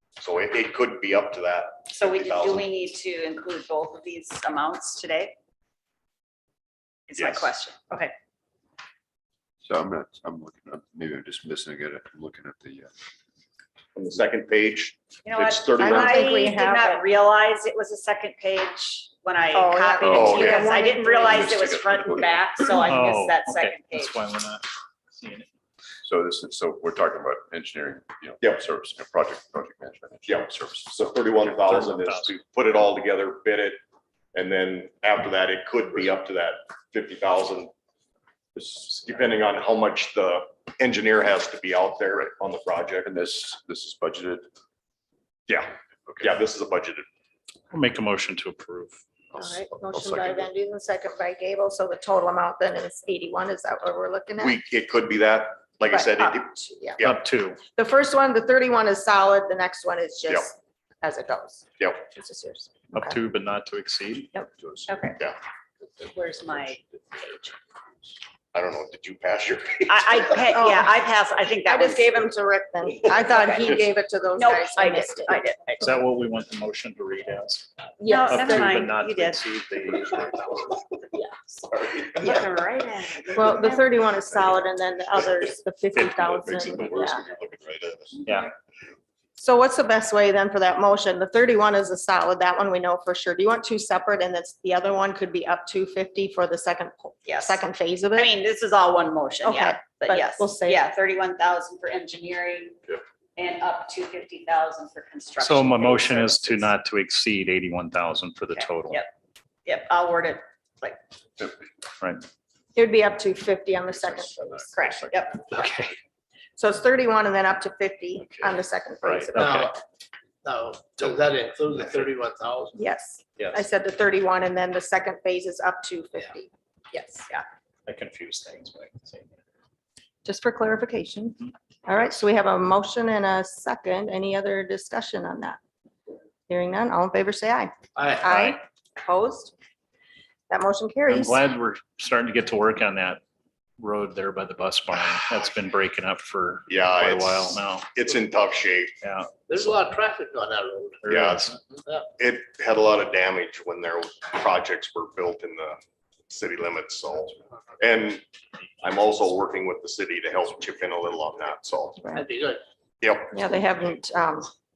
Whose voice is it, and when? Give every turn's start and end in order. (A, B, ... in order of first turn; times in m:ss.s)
0:00.2-0:02.7 A
0:01.9-0:05.3 B
0:07.1-0:08.1 B
0:07.2-0:07.5 A
0:09.6-0:12.9 C
0:14.0-0:16.3 A
0:15.2-0:24.2 B
0:15.8-0:17.0 D
0:19.5-0:21.5 D
0:20.0-0:20.5 C
0:20.1-0:20.7 A
0:21.2-0:22.9 C
0:22.8-0:25.5 E
0:26.0-0:30.8 C
0:30.3-0:33.8 A
0:31.6-0:32.3 E
0:34.3-0:37.7 A
0:38.6-0:43.1 A
0:43.0-0:44.5 C
0:45.5-0:47.1 A
0:46.1-0:46.4 C
0:47.7-0:49.0 E
0:49.4-0:54.6 D
0:49.8-0:50.3 C
0:54.4-0:57.2 A
0:55.9-0:57.0 D
0:57.0-0:57.6 E
0:57.7-1:03.2 D
1:02.9-1:04.3 E
1:04.9-1:05.2 B
1:06.0-1:07.6 B
1:08.5-1:10.4 A
1:09.9-1:12.3 B
1:10.5-1:10.9 D
1:11.7-1:15.4 D
1:13.0-1:16.0 B
1:15.8-1:20.6 E
1:18.0-1:18.7 D
1:18.0-1:19.4 B
1:21.1-1:21.6 B
1:22.1-1:23.9 B
1:23.4-1:27.3 D
1:25.9-1:27.1 E
1:26.1-1:28.2 C
1:28.2-1:28.5 E
1:29.4-1:38.3 D
1:37.3-1:37.6 B
1:38.1-1:42.8 B
1:39.4-1:40.9 D
1:43.4-1:46.7 B
1:45.4-1:49.0 E
1:48.5-1:49.1 B
1:49.7-1:51.0 B
1:52.8-1:54.9 D
1:54.0-1:54.8 C
1:54.7-1:55.5 B
1:55.5-1:56.0 E
1:56.6-1:59.6 D
1:58.5-1:59.7 E
1:59.4-1:59.8 F
2:00.4-2:02.8 F
2:02.8-2:07.4 D
2:03.4-2:03.6 E
2:07.9-2:09.3 E
2:10.2-2:15.6 D
2:16.5-2:17.7 D
2:18.0-2:18.3 F
2:18.2-2:18.6 E
2:18.2-2:19.5 D
2:20.5-2:21.4 D
2:21.1-2:23.2 E
2:23.8-2:27.9 E
2:26.7-2:28.9 A
2:29.0-2:29.9 E
2:29.5-2:31.0 F
2:31.0-2:31.6 E
2:31.1-2:31.5 A
2:32.2-2:38.2 A
2:38.8-2:42.1 A
2:42.1-2:42.6 F
2:43.0-2:43.3 A
2:43.3-2:44.5 D